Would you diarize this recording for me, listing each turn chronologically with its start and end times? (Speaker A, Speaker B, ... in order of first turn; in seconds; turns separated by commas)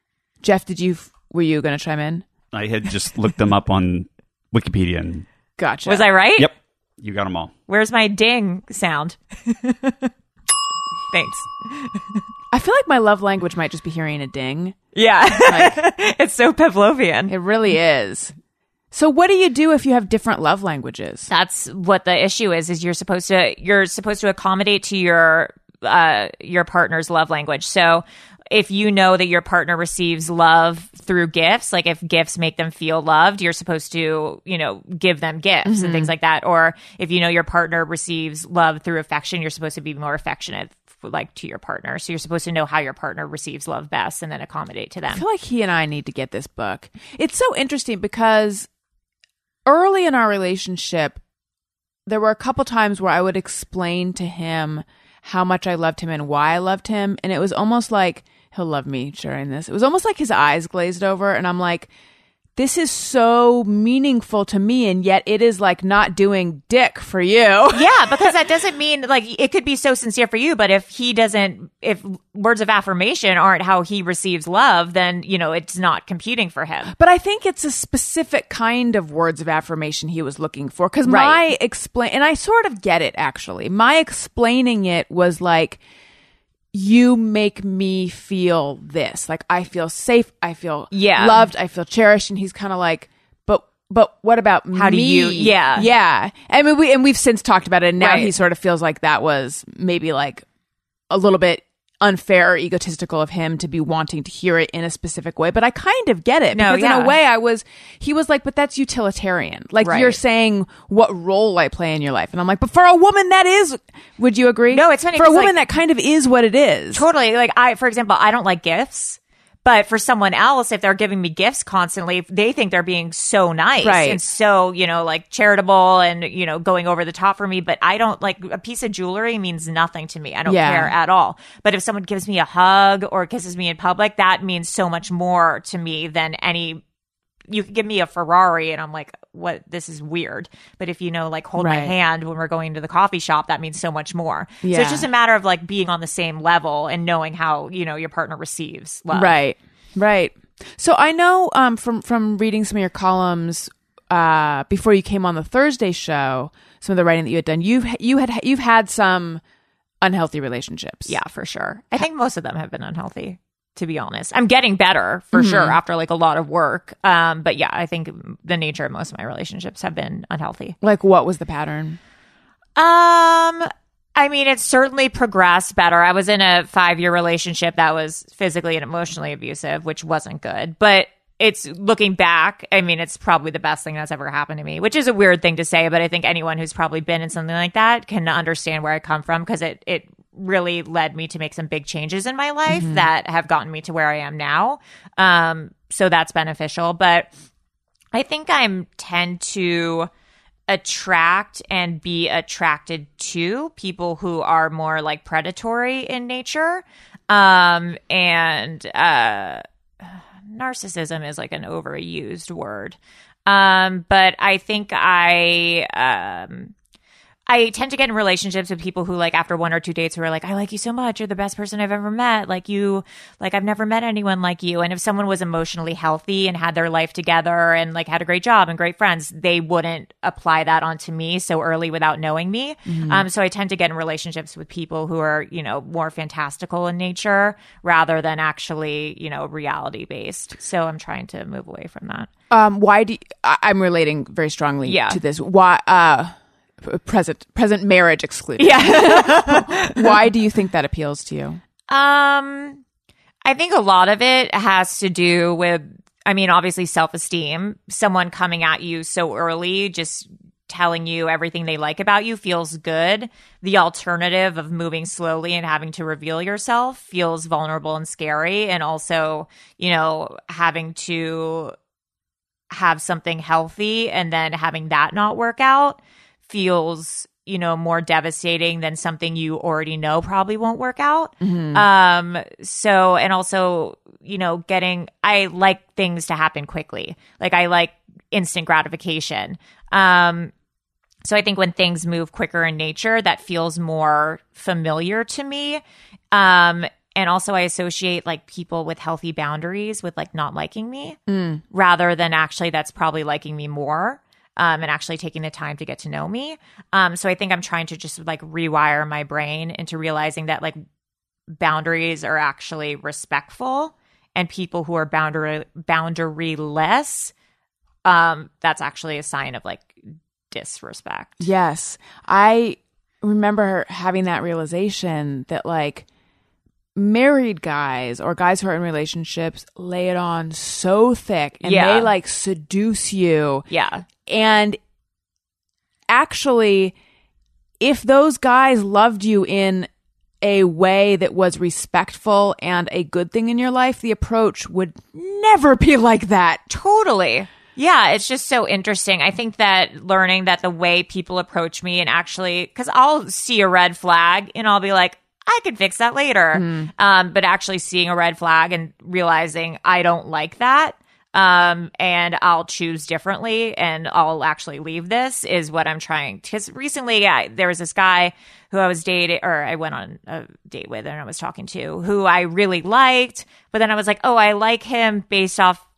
Speaker A: 0.4-2.2, Speaker B: 2.5-5.2, Speaker A: 5.6-6.1, Speaker C: 5.8-6.5, Speaker B: 6.4-7.5, Speaker C: 7.7-10.1, Speaker C: 11.1-12.0, Speaker A: 12.5-14.8, Speaker C: 14.9-17.3, Speaker A: 15.4-15.8, Speaker A: 17.3-18.3, Speaker A: 18.9-21.3, Speaker C: 21.3-45.2, Speaker A: 35.6-36.1, Speaker A: 45.1-48.7, Speaker A: 49.6-51.2, Speaker A: 52.0-61.9, Speaker A: 62.5-68.3, Speaker C: 67.7-76.9, Speaker A: 76.9-85.8, Speaker C: 81.0-81.4, Speaker A: 86.7-100.5, Speaker C: 90.9-91.5, Speaker C: 94.7-95.9, Speaker C: 98.0-98.3, Speaker A: 101.1-117.0, Speaker C: 106.5-107.2, Speaker C: 109.8-110.2, Speaker C: 114.7-115.5, Speaker C: 116.9-136.8, Speaker A: 123.8-124.2, Speaker A: 130.4-130.9, Speaker C: 137.5-149.4, Speaker A: 141.6-141.9, Speaker A: 144.6-145.1, Speaker A: 149.1-159.4, Speaker A: 160.0-161.1, Speaker C: 161.1-170.8, Speaker A: 165.3-165.8, Speaker A: 170.8-172.0, Speaker C: 172.8-197.3, Speaker A: 192.7-193.1, Speaker C: 198.1-200.1, Speaker C: 200.7-216.7, Speaker C: 217.5-242.3, Speaker A: 232.9-233.2, Speaker A: 242.5-251.6, Speaker C: 244.8-245.2, Speaker C: 248.6-250.2, Speaker C: 251.9-252.8, Speaker C: 253.4-271.7, Speaker C: 272.7-290.5, Speaker A: 281.4-281.8, Speaker C: 291.2-301.2, Speaker A: 301.3-301.6, Speaker C: 301.7-310.8, Speaker C: 311.5-317.3, Speaker C: 318.0-320.0, Speaker C: 320.5-321.5, Speaker A: 321.4-326.1, Speaker A: 326.9-333.6, Speaker C: 331.6-332.1, Speaker C: 333.7-334.0, Speaker A: 334.2-334.8, Speaker A: 336.1-336.9, Speaker A: 337.8-339.9, Speaker A: 340.4-346.6, Speaker C: 346.7-375.8, Speaker A: 356.5-356.9